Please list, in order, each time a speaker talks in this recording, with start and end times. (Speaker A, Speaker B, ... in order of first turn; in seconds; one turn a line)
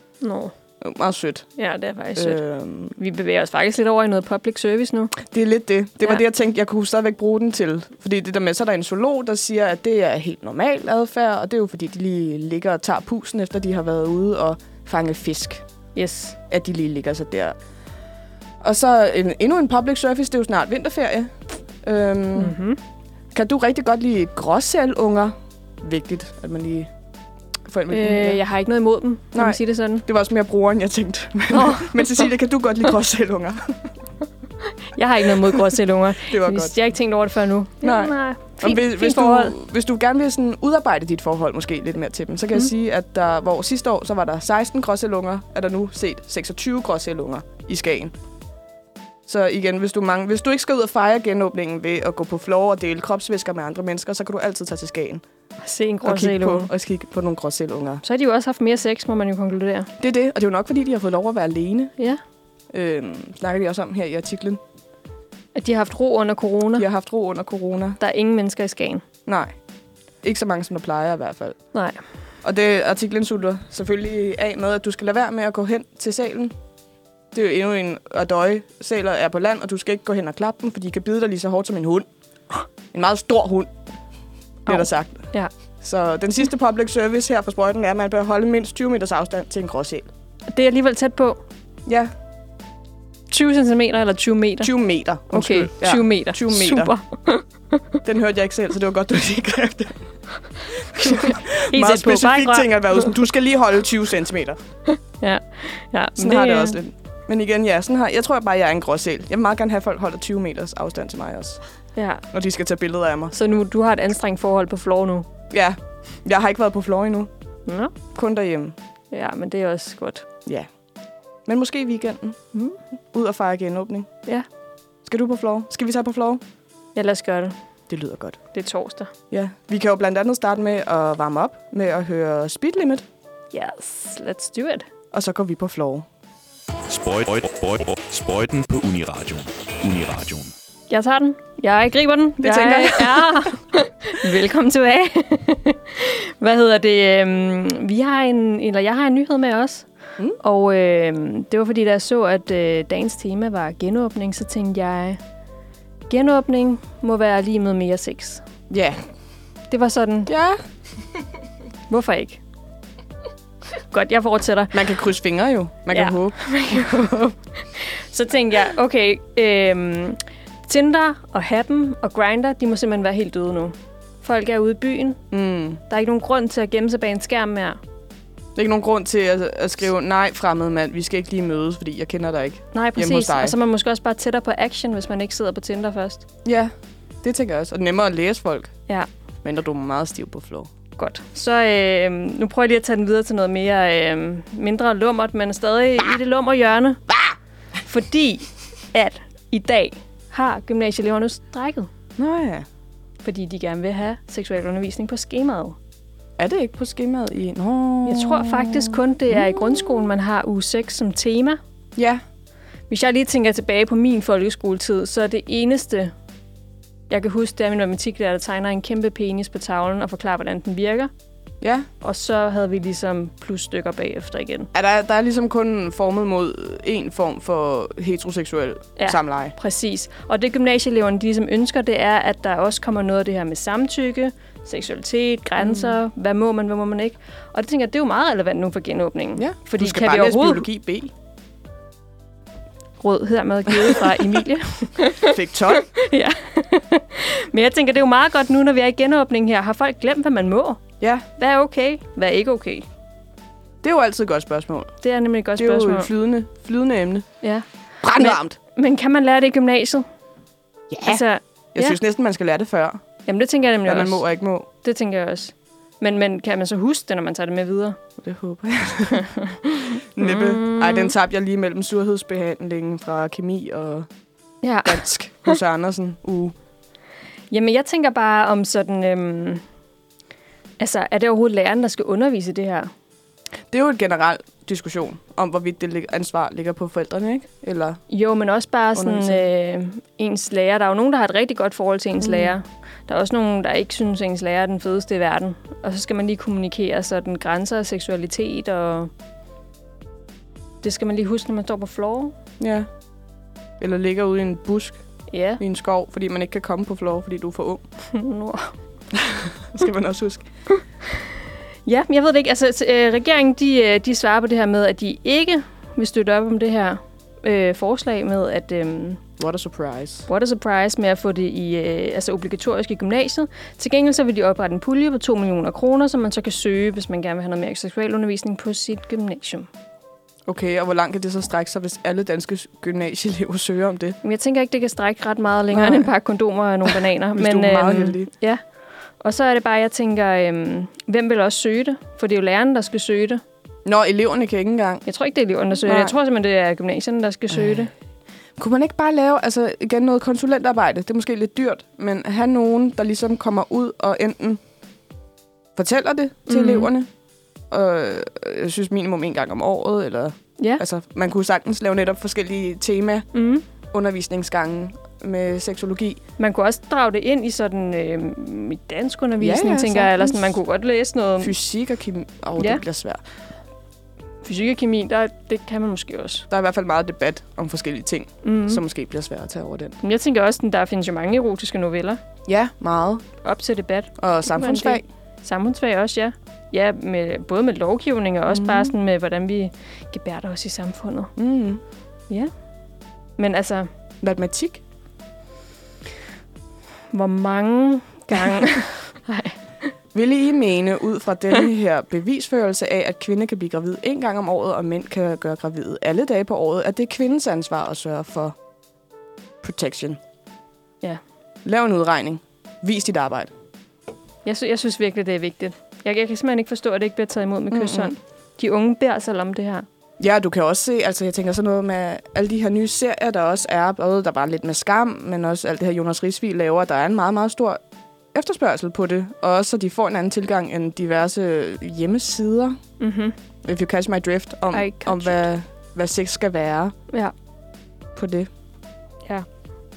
Speaker A: 0.2-0.5
Speaker B: 0.8-1.5
Speaker A: 1.6-2.4
Speaker B: 2.1-2.9
Speaker A: 3.0-5.1
Speaker B: 5.2-15.6
Speaker A: 15.9-16.4
Speaker B: 16.5-17.5
Speaker B: 18.6-21.3
Speaker B: 21.8-22.5
Speaker A: 22.4-22.8
Speaker B: 23.3-26.9
Speaker B: 27.7-28.4
Speaker A: 27.9-30.0
Speaker B: 29.3-33.8
Speaker A: 31.5-32.2
Speaker A: 34.9-39.5
Speaker B: 36.3-36.8
Speaker B: 37.8-48.1
Speaker B: 49.3-55.2
Speaker A: 55.6-56.7
Speaker B: 56.0-58.0
Speaker A: 58.0-59.9
Speaker B: 60.0-61.9
Speaker B: 62.7-64.6
Speaker A: 65.5-66.9
Speaker B: 66.8-68.0
Speaker A: 68.0-69.0
Speaker B: 69.2-69.5
Speaker B: 70.2-71.6
Speaker A: 71.7-72.0
Speaker B: 72.4-76.5
Speaker B: 77.3-82.0
Speaker B: 82.9-83.7
Speaker B: 84.7-85.3
Speaker A: 84.7-85.5
Speaker B: 85.8-90.1
Speaker A: 90.5-91.4
Speaker B: 91.8-92.1
Speaker A: 93.3-94.7
Speaker B: 94.6-96.9
Speaker A: 95.3-98.0
Speaker B: 98.0-100.0
Speaker B: 100.7-104.6
Speaker A: 100.9-103.0
Speaker A: 104.9-106.8
Speaker B: 106.2-111.6
Speaker A: 112.0-112.2
Speaker B: 112.3-113.3
Speaker A: 113.3-115.3
Speaker B: 115.5-117.3
Speaker A: 117.7-117.9
Speaker B: 118.1-118.7
Speaker A: 119.1-120.2
Speaker B: 121.5-122.4
Speaker B: 123.1-124.1
Speaker B: 125.0-126.4
Speaker A: 126.9-127.5
Speaker B: 127.9-128.4
Speaker A: 128.5-129.1
Speaker B: 129.3-133.0
Speaker A: 133.5-134.8
Speaker B: 135.1-136.1
Speaker C: 136.9-140.5
Speaker A: 140.9-149.9
Speaker B: 142.4-143.5
Speaker A: 150.4-155.2
Speaker A: 156.1-158.4
Speaker B: 158.7-159.0
Speaker A: 159.7-160.3
Speaker B: 160.3-160.6
Speaker A: 161.9-162.4
Speaker A: 163.9-164.8
Speaker B: 164.7-167.2
Speaker A: 165.9-175.2
Speaker B: 175.3-175.8
Speaker A: 175.9-177.8
Speaker B: 178.6-183.5
Speaker A: 182.7-186.2
Speaker B: 186.4-186.7
Speaker B: 187.2-188.8
Speaker B: 189.4-190.7
Speaker A: 191.0-197.0
Speaker A: 197.9-201.9
Speaker B: 202.2-202.7
Speaker A: 203.2-205.8
Speaker B: 206.4-209.8
Speaker A: 208.1-211.6
Speaker B: 211.9-212.2
Speaker A: 212.9-216.1
Speaker A: 217.1-221.1
Speaker B: 221.6-221.9
Speaker A: 222.0-224.7
Speaker B: 224.7-229.6
Speaker A: 229.0-240.6
Speaker B: 235.6-236.0
Speaker B: 239.4-241.1
Speaker A: 243.0-250.8
Speaker B: 243.7-244.4
Speaker B: 245.2-245.9
Speaker A: 251.4-252.8
Speaker B: 253.8-254.9
Speaker A: 255.0-256.1
Speaker B: 255.6-257.2
Speaker B: 258.0-258.6
Speaker A: 258.1-260.1
Speaker B: 260.9-261.2
Speaker A: 261.0-262.0
Speaker B: 261.7-263.0
Speaker A: 263.2-264.2
Speaker B: 263.9-264.6
Speaker A: 264.8-268.0
Speaker B: 268.2-269.3
Speaker A: 269.1-271.1
Speaker B: 270.0-274.1
Speaker A: 274.6-275.6
Speaker B: 274.8-276.5
Speaker A: 277.5-279.6
Speaker A: 280.8-282.9
Speaker B: 283.7-288.0
Speaker A: 288.1-299.1
Speaker B: 288.9-289.4
Speaker B: 292.2-292.5
Speaker A: 300.8-302.3
Speaker B: 302.6-302.9
Speaker B: 303.8-305.0
Speaker A: 305.3-305.6
Speaker B: 305.6-307.8
Speaker A: 308.1-308.7
Speaker B: 309.1-310.4
Speaker A: 311.9-319.2
Speaker B: 319.4-320.3
Speaker A: 320.3-329.7
Speaker B: 330.5-334.2
Speaker A: 334.2-338.6
Speaker B: 335.7-336.1
Speaker B: 336.9-338.3
Speaker A: 339.2-343.4
Speaker B: 343.8-345.0
Speaker A: 345.1-347.9
Speaker B: 345.8-346.1
Speaker B: 347.5-347.8
Speaker B: 348.6-354.6
Speaker B: 355.8-357.1
Speaker A: 356.5-356.9
Speaker B: 357.7-363.3
Speaker A: 363.3-363.6
Speaker B: 363.9-366.2
Speaker A: 366.4-371.5
Speaker B: 369.4-370.5
Speaker B: 371.4-373.2
Speaker A: 374.4-376.4
Speaker B: 376.5-379.9
Speaker A: 378.4-378.8
Speaker A: 380.0-382.2
Speaker B: 382.4-383.2
Speaker A: 383.4-391.3
Speaker B: 384.2-385.1
Speaker B: 388.5-388.9
Speaker B: 391.4-391.8
Speaker A: 393.4-393.9
Speaker B: 394.2-394.8
Speaker A: 397.1-399.9
Speaker B: 400.1-408.5
Speaker B: 409.6-410.2
Speaker B: 411.6-413.5
Speaker A: 414.4-419.9
Speaker B: 417.7-418.1
Speaker B: 420.2-427.8
Speaker B: 428.3-432.8
Speaker A: 433.0-433.3
Speaker B: 433.6-436.9
Speaker A: 434.7-435.4
Speaker B: 438.1-438.5